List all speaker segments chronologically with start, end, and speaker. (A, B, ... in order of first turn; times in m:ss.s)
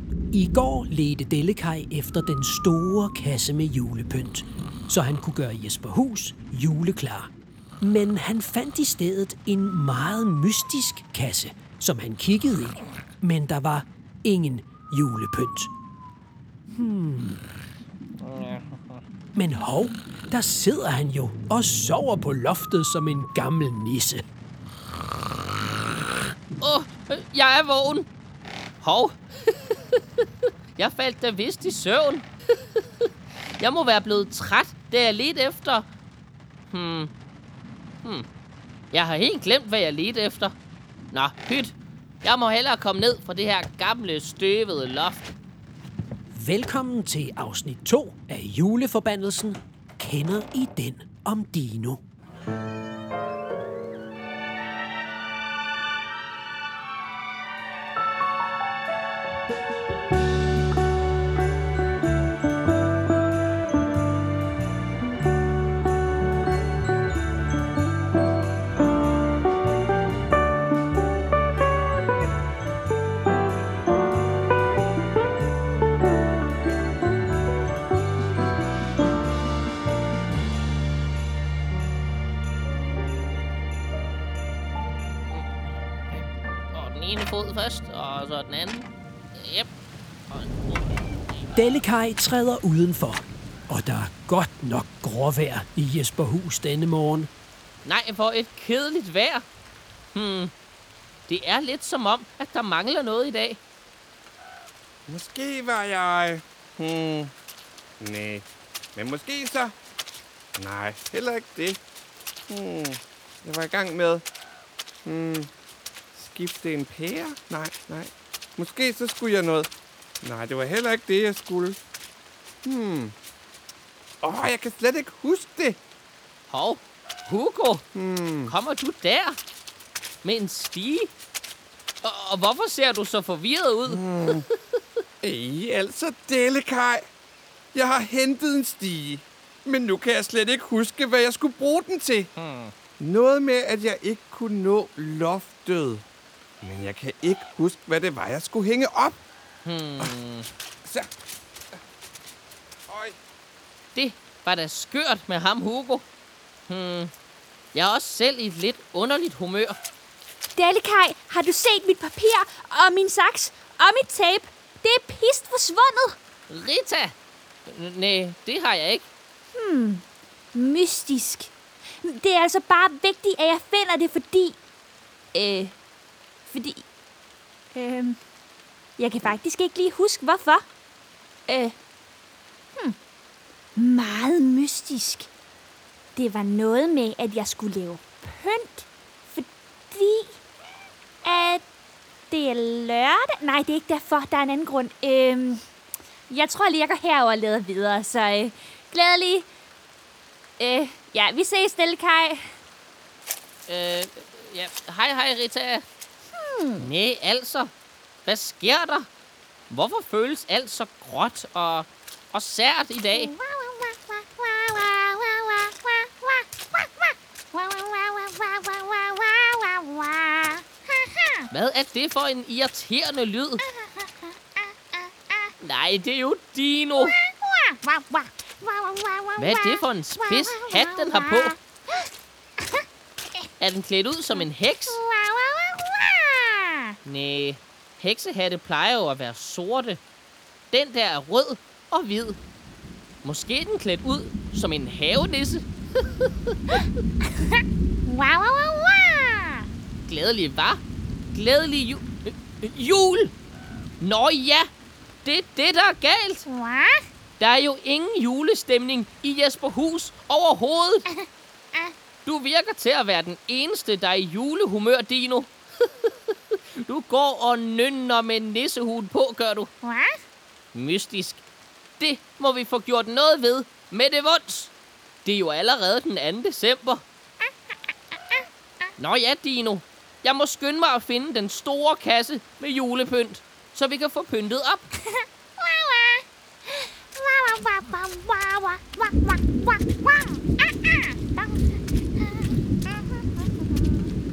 0:00.3-0:15.7 A
0:16.7-0:17.4 A
0:19.3-0:24.2 A
0:26.6-0:28.1 B
0:28.8-0:30.2 B
0:30.8-0:32.8 B
0:33.6-0:35.9 B
0:36.7-0:37.1 B
0:38.9-0:40.5 B
0:41.1-0:45.3 B
0:46.4-0:52.0 A
1:26.7-1:29.7 B
1:30.3-1:31.4 B
1:31.5-1:37.3 A
1:37.8-1:39.4 B
1:40.1-1:40.5 B
1:41.3-1:43.6 B
1:45.1-1:47.3 C
1:48.0-1:49.7 C
1:50.6-1:51.8 C
1:52.5-1:54.2 C
1:55.0-1:55.5 C
1:56.1-1:59.7 C
2:00.2-2:01.8 C
2:02.6-2:03.1 C
2:04.2-2:05.8 C
2:06.5-2:07.8 B
2:07.9-2:08.5 C
2:08.5-2:09.4 B
2:10.2-2:11.1 B
2:12.0-2:14.4 B
2:13.9-2:14.4 C
2:15.2-2:17.0 C
2:17.7-2:22.3 C
2:22.4-2:22.7 B
2:23.0-2:26.0 C
2:26.6-2:29.2 C
2:29.6-2:30.5 B
2:30.8-2:31.1 C
2:32.9-2:33.2 C
2:33.9-2:36.0 B
2:36.7-2:37.1 B
2:37.7-2:39.8 B
2:40.6-2:46.1 D
2:46.5-2:47.1 B
2:47.6-2:49.1 B
2:49.6-2:50.0 D
2:50.5-2:51.5 D
2:52.0-2:54.6 D
2:55.3-2:55.7 D
2:56.5-2:56.8 D
2:57.7-2:58.2 D
2:59.0-3:00.6 D
3:01.5-3:01.7 D
3:03.8-3:05.3 D
3:06.2-3:10.4 D
3:11.2-3:11.6 D
3:12.3-3:15.6 D
3:16.3-3:19.5 D
3:20.6-3:22.4 D
3:23.7-3:25.8 B
3:26.4-3:26.8 D
3:26.8-3:27.7 B
3:28.2-3:29.1 B
3:29.7-3:33.3 B
3:33.2-3:41.4 D
3:41.5-3:43.6 B
3:43.7-3:44.2 D
3:45.6-3:47.2 B
3:47.1-3:49.8 D
3:49.4-3:51.6 B
3:50.3-3:51.5 D
3:53.6-3:55.0 B
3:54.9-3:56.9 D
3:57.0-4:00.0 B
4:00.7-4:02.4 B
4:03.2-4:06.6 B
4:08.1-4:09.6 D
4:10.0-4:10.8 B
4:11.3-4:13.3 B
4:14.0-4:14.7 B
4:15.2-4:16.4 B
4:16.5-4:17.0 D
4:17.4-4:21.1 B
4:22.2-4:26.3 B
4:26.8-4:29.7 B
4:29.8-4:30.1 D
4:30.7-4:31.4 B
4:32.0-4:34.7 B
4:35.2-4:37.0 B
4:39.0-4:44.9 B
4:45.6-4:46.2 D
4:46.8-4:51.7 D
4:52.9-4:53.3 D